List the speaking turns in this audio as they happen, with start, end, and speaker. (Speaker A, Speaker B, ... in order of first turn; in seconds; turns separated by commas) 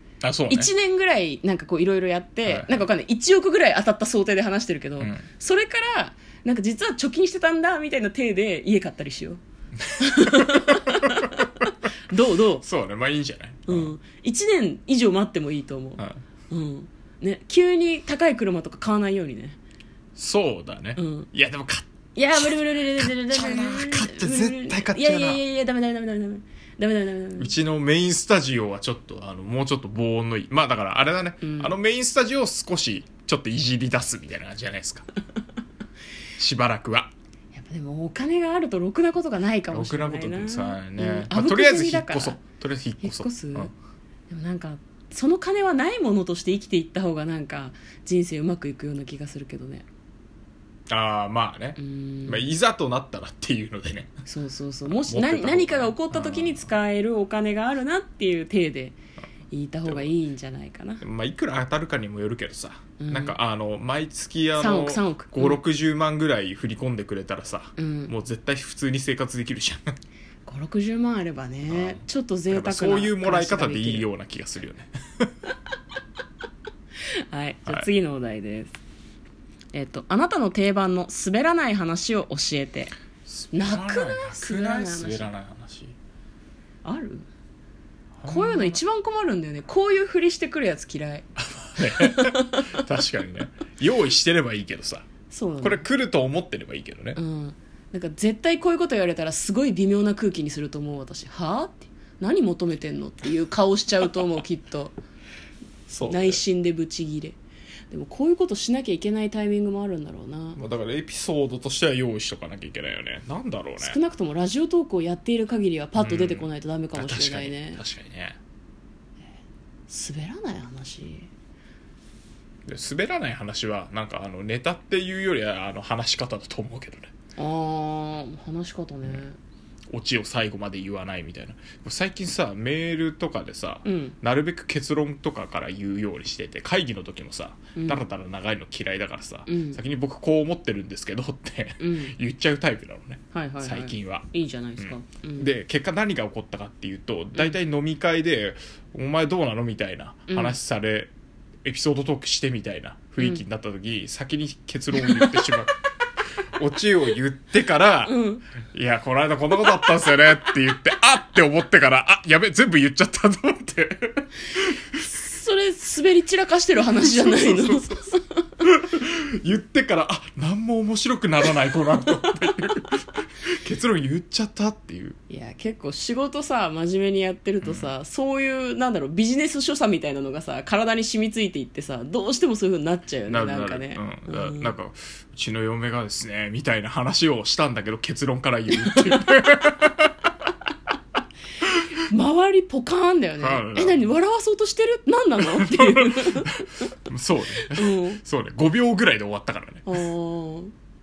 Speaker A: 0.2-0.7, Speaker B: 0.5-9.4, Speaker A: 2.5-2.8, Speaker A: 5.0-5.2, Speaker A: 9.9-11.2, Speaker B: 10.0-11.5, Speaker B: 12.1-12.6, Speaker A: 12.6-13.9, Speaker B: 13.7-19.6, Speaker A: 20.1-25.4, Speaker B: 20.9-21.3, Speaker B: 22.1-27.5, Speaker A: 27.4-35.1, Speaker B: 31.4-31.7, Speaker A: 36.4-37.1, Speaker B: 37.5-42.4, Speaker A: 39.7-43.7, Speaker B: 43.0-43.7, Speaker B: 44.3-49.9, Speaker A: 50.9-54.2, Speaker B: 51.8-52.5, Speaker B: 54.2-59.0, Speaker A: 54.9-56.7, Speaker B: 59.5-61.0, Speaker A: 61.0-69.9, Speaker B: 63.0-63.4, Speaker B: 64.5-65.6, Speaker B: 67.8-68.1, Speaker B: 70.5-74.1, Speaker A: 71.7-75.3, Speaker B: 77.3-78.8, Speaker B: 79.7-82.9, Speaker A: 83.2-85.9, Speaker B: 83.5-85.3, Speaker B: 86.8-87.3, Speaker A: 88.2-88.8, Speaker B: 88.2-92.8, Speaker A: 91.4-95.1, Speaker B: 95.3-95.8, Speaker A: 95.6-97.2, Speaker B: 97.1-104.9, Speaker A: 105.9-106.4, Speaker B: 106.1-107.4, Speaker B: 107.9-110.6, Speaker A: 110.5-114.0, Speaker B: 113.8-117.8, Speaker A: 116.0-118.4, Speaker B: 119.9-121.3, Speaker A: 122.7-127.1, Speaker B: 127.4-129.3, Speaker A: 129.9-151.1, Speaker B: 133.8-134.2, Speaker B: 137.8-138.0, Speaker B: 139.5-139.8, Speaker B: 141.8-142.1, Speaker B: 143.3-145.5, Speaker B: 150.3-150.6, Speaker A: 151.6-155.8, Speaker B: 155.0-155.4, Speaker A: 156.6-158.1, Speaker B: 158.1-158.4, Speaker A: 158.7-165.0, Speaker B: 165.0-168.4, Speaker A: 167.0-168.0, Speaker A: 168.6-175.2, Speaker B: 175.3-184.7, Speaker A: 177.6-177.9, Speaker A: 183.3-190.1, Speaker B: 192.1-196.9, Speaker A: 193.4-194.1, Speaker A: 195.5-200.0, Speaker B: 197.6-198.2, Speaker B: 199.9-200.7